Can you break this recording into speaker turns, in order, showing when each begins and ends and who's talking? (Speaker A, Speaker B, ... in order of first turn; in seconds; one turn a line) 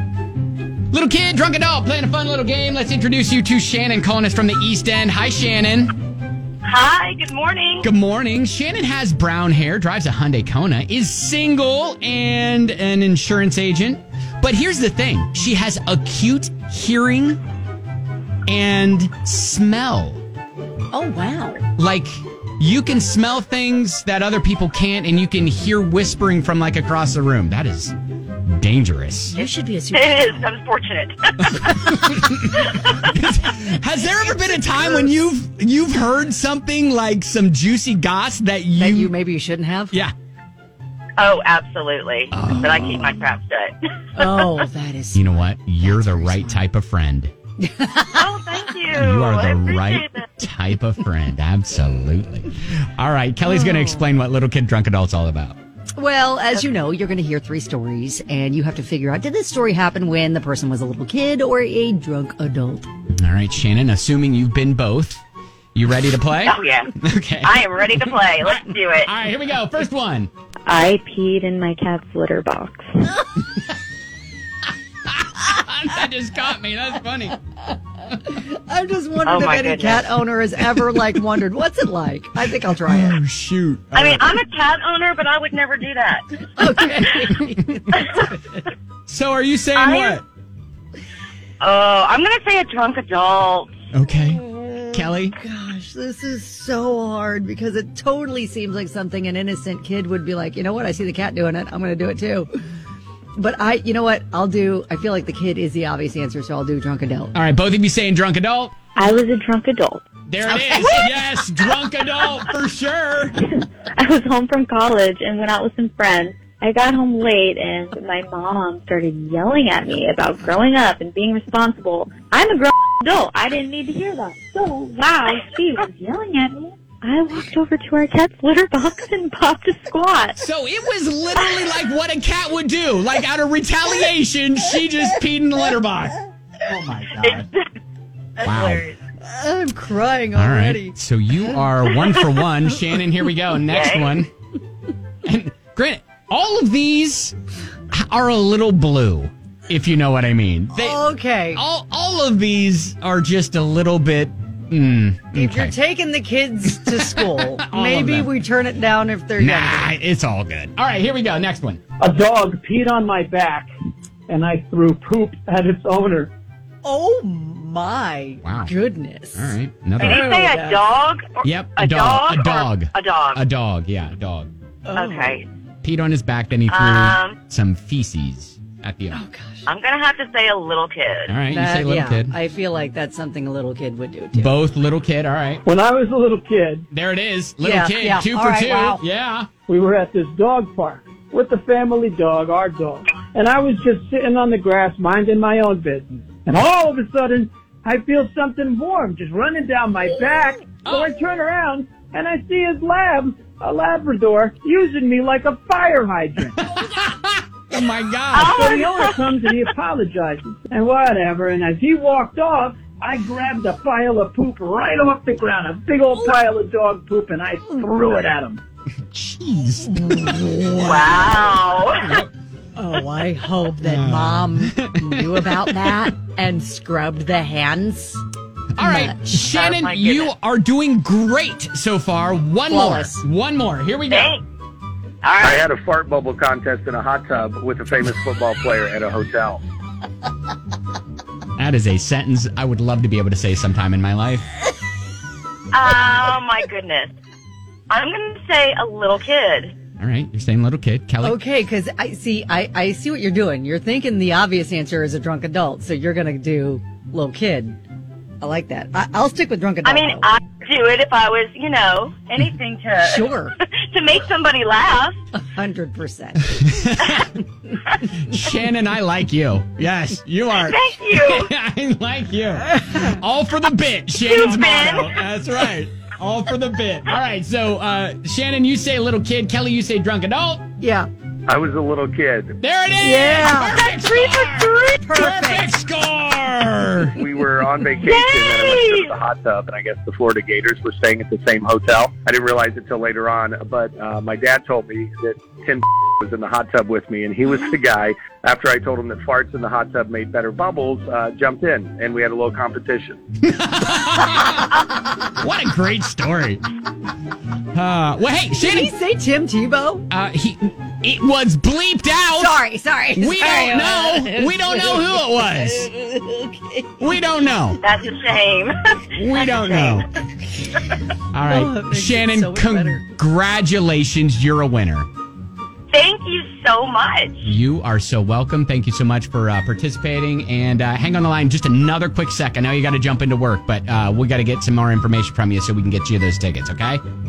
Speaker A: 0.9-5.9
Speaker B: 6.7-7.9
Speaker A: 7.8-17.4
Speaker A: 18.5-20.2
Speaker C: 20.9-21.6
Speaker A: 21.8-27.9
Speaker A: 28.5-29.4
Speaker C: 29.3-30.4
Speaker B: 29.4-33.0
Speaker A: 31.5-39.1
Speaker C: 34.7-35.1
Speaker C: 38.8-40.0
Speaker B: 41.2-44.5
Speaker A: 42.3-43.1
Speaker C: 44.2-46.6
Speaker A: 45.1-47.3
Speaker C: 47.6-48.3
Speaker B: 48.1-50.2
Speaker A: 48.9-55.6
Speaker C: 53.4-54.1
Speaker C: 56.0-62.9
Speaker A: 63.2-65.2
Speaker A: 65.7-67.6
Speaker B: 66.4-66.9
Speaker B: 67.4-69.1
Speaker A: 68.4-70.3
Speaker D: 70.7-72.9
Speaker A: 75.1-77.4
Speaker C: 78.2-83.2
Speaker B: 79.2-80.1
Speaker A: 82.9-84.3
Speaker B: 83.9-86.5
Speaker C: 86.5-88.6
Speaker A: 89.1-90.2
Speaker B: 89.7-90.2
Speaker B: 91.6-93.7
Speaker A: 93.9-95.4
Speaker C: 94.1-102.5
Speaker C: 103.4-107.3
Speaker A: 107.3-108.7
Speaker D: 109.0-110.1
Speaker A: 110.3-113.4
Speaker C: 110.5-111.1
Speaker D: 114.0-130.4
Speaker A: 130.4-137.5
Speaker B: 137.2-137.6
Speaker B: 138.4-139.0
Speaker A: 138.4-138.8
Speaker C: 139.2-141.0
Speaker A: 140.4-144.3
Speaker B: 143.7-144.1
Speaker A: 145.2-147.4
Speaker A: 147.9-151.0
Speaker C: 150.7-151.6
Speaker A: 151.5-155.7
Speaker C: 155.3-159.9
Speaker A: 156.7-158.3
Speaker A: 159.4-161.8
Speaker E: 162.0-163.7
Speaker E: 164.3-166.3
Speaker C: 166.8-170.8
Speaker A: 168.4-168.7
Speaker A: 169.3-170.3
Speaker B: 170.0-173.4
Speaker A: 171.4-174.5
Speaker C: 174.8-175.4
Speaker B: 174.9-175.5
Speaker A: 175.8-179.2
Speaker B: 176.7-177.4
Speaker C: 179.1-179.7
Speaker B: 179.7-181.3
Speaker A: 181.3-182.3
Speaker C: 181.5-184.5
Speaker A: 184.3-185.6
Speaker E: 185.7-186.9
Speaker A: 186.9-189.5
Speaker C: 187.6-189.0
Speaker E: 189.7-206.6
Speaker A: 206.6-208.5
Speaker B: 208.3-209.5
Speaker E: 208.4-218.6
Speaker A: 219.1-221.2
Speaker C: 219.9-221.3
Speaker B: 220.8-222.2
Speaker A: 222.0-222.3
Speaker C: 222.8-228.2
Speaker A: 223.8-226.1
Speaker A: 228.8-234.3
Speaker C: 228.8-229.4
Speaker B: 229.5-230.3
Speaker C: 232.7-233.2
Speaker B: 234.1-234.4
Speaker B: 235.2-235.7
Speaker F: 235.4-239.6
Speaker A: 241.6-244.4
Speaker B: 245.7-247.1
Speaker B: 247.9-249.8
Speaker A: 250.0-251.4
Speaker C: 251.2-257.8
Speaker C: 258.4-260.3
Speaker B: 259.8-265.2
Speaker C: 263.0-263.5
Speaker C: 265.3-267.0
Speaker A: 266.6-267.4
Speaker A: 268.1-280.6
Speaker B: 270.6-271.5
Speaker C: 272.9-273.1
Speaker B: 274.2-275.2
Speaker C: 280.8-281.1
Speaker F: 281.5-282.6
Speaker A: 282.6-287.1
Speaker C: 283.0-283.8
Speaker B: 283.6-285.0
Speaker C: 285.0-285.7
Speaker F: 287.2-303.2
Speaker B: 288.0-289.2
Speaker A: 303.4-304.7
Speaker A: 305.3-306.6
Speaker A: 307.7-308.9
Speaker C: 308.6-310.1
Speaker A: 310.1-312.6
Speaker C: 312.3-317.2
Speaker A: 313.2-315.9
Speaker A: 317.0-317.8
Speaker B: 317.8-320.1
Speaker A: 319.1-320.1
Speaker A: 321.3-325.1
Speaker C: 321.5-323.0
Speaker B: 325.9-327.4
Speaker A: 327.4-337.0